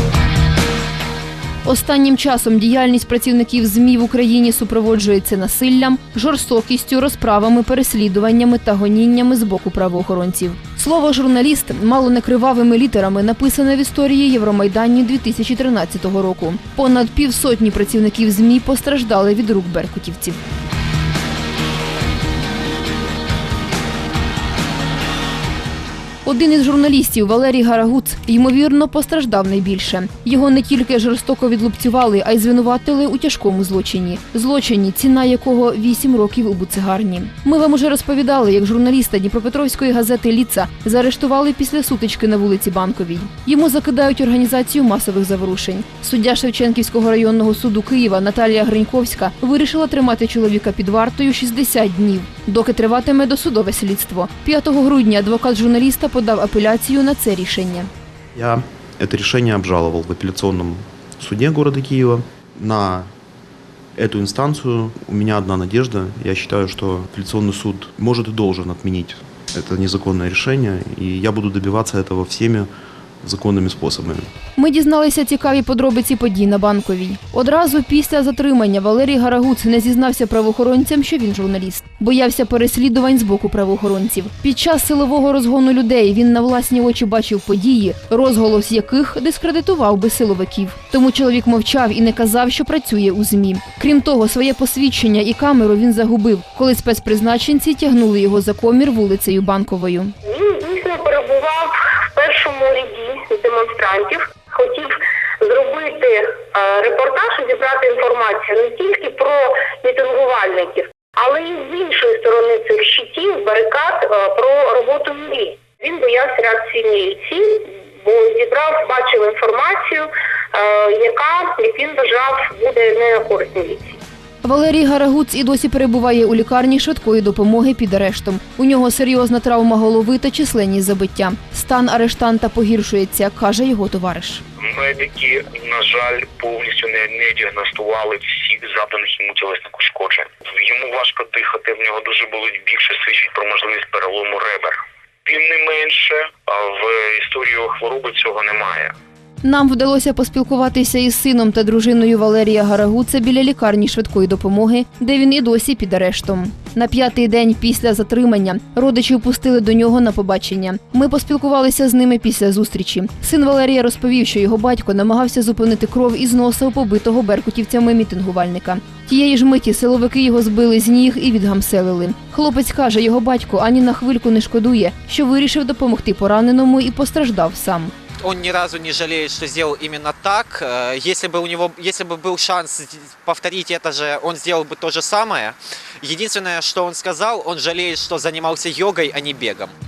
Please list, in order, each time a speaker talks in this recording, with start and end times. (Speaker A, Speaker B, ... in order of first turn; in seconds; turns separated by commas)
Speaker A: 1.6-20.4, Speaker A: 26.2-57.9, Speaker B: 58.3-63.1, Speaker B: 64.0-72.7, Speaker B: 73.2-74.3, Speaker A: 74.5-100.1, Speaker C: 100.2-124.0, Speaker A: 124.4-134.4, Speaker D: 134.6-148.9, Speaker A: 149.4-177.9, Speaker E: 178.2-189.7